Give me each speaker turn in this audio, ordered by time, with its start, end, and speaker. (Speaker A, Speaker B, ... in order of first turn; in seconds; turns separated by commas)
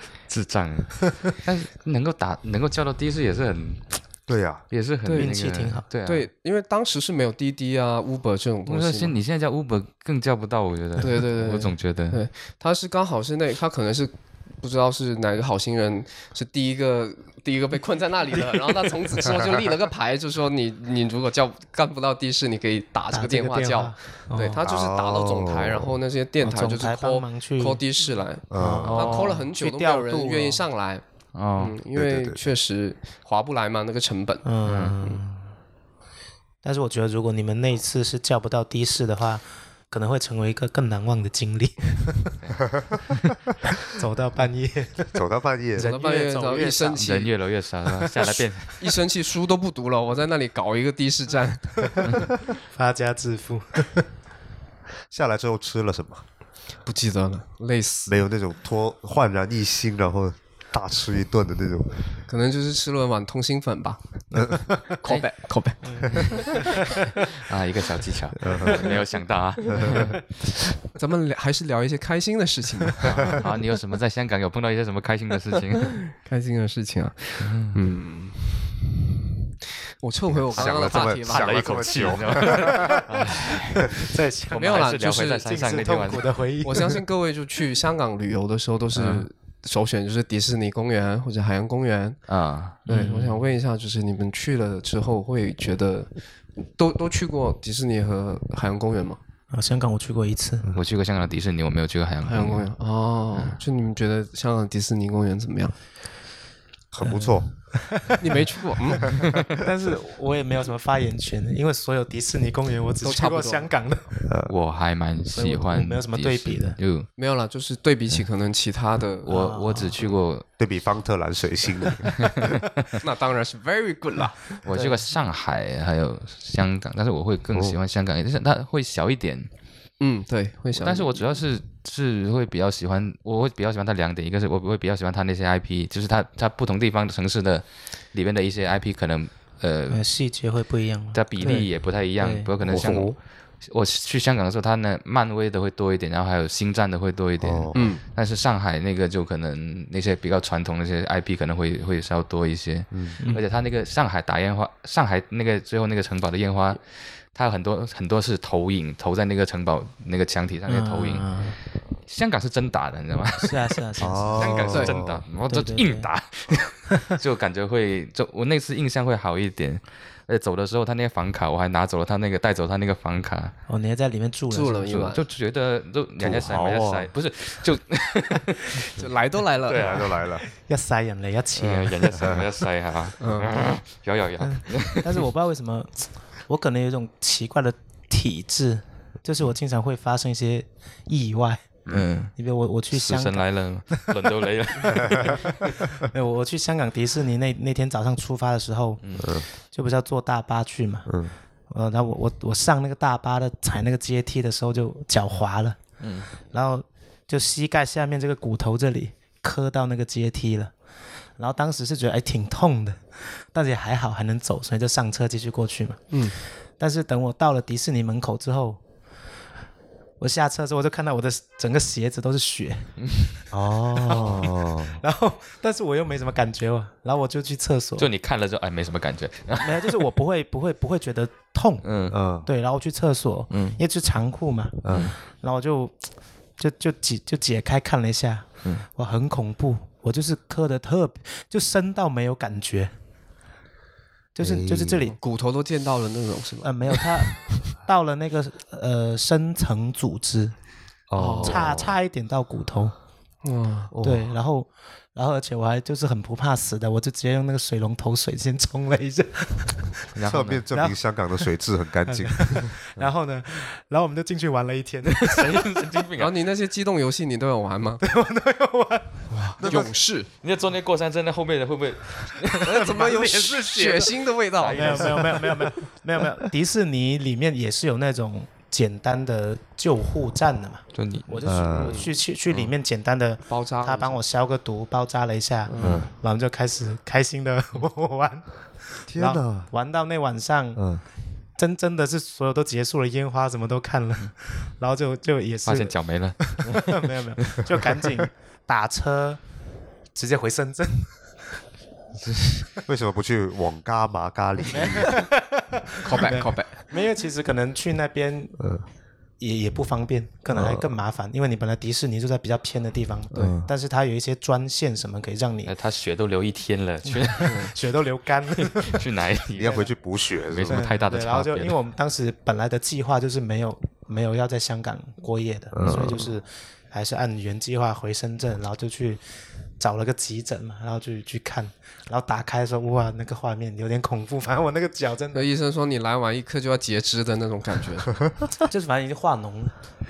Speaker A: 0.3-4.0, Speaker B: 4.3-4.6, Speaker A: 4.7-6.3, Speaker C: 5.0-5.3, Speaker D: 5.2-5.8, Speaker C: 6.0-9.1, Speaker A: 8.7-12.2, Speaker C: 11.0-31.0, Speaker D: 23.1-24.6, Speaker B: 24.6-25.9, Speaker D: 26.4-27.8, Speaker B: 28.5-29.3, Speaker D: 28.5-30.6, Speaker A: 31.4-31.7, Speaker C: 31.6-34.4, Speaker B: 31.9-32.4, Speaker D: 34.4-35.5, Speaker A: 34.6-35.0, Speaker D: 36.6-42.2, Speaker A: 42.4-42.6, Speaker D: 43.9-45.1, Speaker B: 45.1-45.9, Speaker D: 45.7-47.0, Speaker C: 45.8-47.3, Speaker A: 46.7-48.9, Speaker C: 48.2-52.3, Speaker D: 52.7-54.0, Speaker B: 55.1-56.2, Speaker C: 56.9-58.2, Speaker B: 58.1-62.1, Speaker C: 62.3-66.7, Speaker D: 65.8-66.8, Speaker A: 66.1-70.3, Speaker B: 68.4-68.9, Speaker B: 69.7-70.0, Speaker C: 70.9-73.4, Speaker A: 73.0-76.1, Speaker C: 76.1-79.0, Speaker A: 77.4-77.8, Speaker C: 80.0-82.2, Speaker B: 80.3-83.2, Speaker A: 80.5-86.4, Speaker D: 83.9-87.0, Speaker C: 84.5-85.5, Speaker C: 86.6-92.2, Speaker A: 88.9-89.3, Speaker A: 92.3-93.2, Speaker D: 92.9-93.3, Speaker C: 92.9-99.2, Speaker D: 99.5-100.7, Speaker A: 100.7-102.7, Speaker C: 102.2-105.7, Speaker B: 106.9-107.5, Speaker D: 107.0-108.4, Speaker C: 108.2-109.2, Speaker D: 109.6-114.2, Speaker C: 113.0-113.7, Speaker B: 114.2-114.5, Speaker A: 114.5-117.1, Speaker D: 115.3-116.8, Speaker C: 117.2-119.3, Speaker A: 119.2-120.4, Speaker D: 119.3-120.0, Speaker B: 120.6-122.5, Speaker A: 122.0-122.8, Speaker C: 123.0-124.6, Speaker A: 124.6-129.5, Speaker C: 130.0-131.2, Speaker A: 130.7-140.0, Speaker D: 139.9-142.5, Speaker A: 141.1-161.4, Speaker B: 142.6-143.2, Speaker B: 147.4-147.9, Speaker C: 147.7-148.0, Speaker B: 152.9-153.2, Speaker D: 160.7-161.6, Speaker A: 162.0-163.8, Speaker D: 163.4-164.7, Speaker B: 164.0-165.2, Speaker A: 164.4-173.5, Speaker C: 164.4-164.9, Speaker D: 165.5-166.1, Speaker D: 173.7-174.9, Speaker C: 174.5-175.2, Speaker A: 174.9-179.0, Speaker B: 176.2-177.1, Speaker C: 178.9-180.0, Speaker A: 179.6-180.1, Speaker B: 179.8-180.4, Speaker D: 180.5-182.1, Speaker A: 181.6-185.2, Speaker B: 182.2-182.4, Speaker C: 183.2-183.6, Speaker D: 184.4-191.7, Speaker A: 191.9-192.3, Speaker D: 192.4-194.1, Speaker A: 192.9-195.7, Speaker D: 194.9-199.0, Speaker B: 194.9-195.3, Speaker A: 199.0-199.3, Speaker B: 199.2-199.4, Speaker D: 199.7-201.1, Speaker B: 201.1-201.3, Speaker D: 201.7-205.8, Speaker A: 206.0-206.3, Speaker D: 206.4-210.7, Speaker D: 211.4-216.0, Speaker C: 216.1-216.4, Speaker D: 216.8-218.8, Speaker D: 220.2-222.9, Speaker B: 223.5-225.0, Speaker D: 224.0-228.1, Speaker A: 228.0-230.0, Speaker D: 229.6-231.9, Speaker A: 231.8-232.2, Speaker B: 232.1-232.5, Speaker D: 232.4-236.1, Speaker A: 233.5-233.8, Speaker B: 234.8-235.1, Speaker A: 234.9-235.1, Speaker D: 236.6-242.9, Speaker D: 244.3-245.2, Speaker B: 244.4-245.0, Speaker C: 245.1-247.4, Speaker D: 246.6-250.5, Speaker B: 251.1-251.9, Speaker C: 251.2-251.6, Speaker D: 251.4-252.9, Speaker C: 253.4-253.9, Speaker B: 253.9-254.3, Speaker D: 254.0-259.9, Speaker A: 260.1-260.6, Speaker B: 260.2-263.1, Speaker D: 262.1-265.6, Speaker A: 265.2-266.4, Speaker C: 266.2-268.0, Speaker D: 268.0-269.3, Speaker B: 269.6-269.9, Speaker C: 269.6-270.3, Speaker A: 270.4-272.9, Speaker C: 272.6-275.2, Speaker D: 272.8-274.1, Speaker A: 274.5-275.5, Speaker D: 274.7-290.8, Speaker A: 280.9-281.4, Speaker B: 281.4-282.1, Speaker C: 281.8-282.1, Speaker C: 283.5-284.2, Speaker C: 285.7-286.1, Speaker B: 285.8-286.1, Speaker B: 289.1-289.7, Speaker B: 290.8-291.0, Speaker D: 291.6-299.4, Speaker A: 295.6-297.6, Speaker D: 300.1-301.3, Speaker A: 302.2-302.6, Speaker B: 302.9-305.2, Speaker D: 304.7-308.6, Speaker C: 306.0-306.9, Speaker B: 308.6-308.8, Speaker D: 309.4-315.7, Speaker B: 310.5-310.9, Speaker B: 313.3-313.7, Speaker A: 315.6-317.7, Speaker D: 317.1-319.0, Speaker C: 317.4-317.7, Speaker A: 318.5-319.8, Speaker B: 319.5-320.8, Speaker A: 320.5-321.7, Speaker D: 320.7-329.2, Speaker B: 325.7-326.3, Speaker D: 329.8-335.5, Speaker C: 335.3-338.1, Speaker D: 338.6-339.7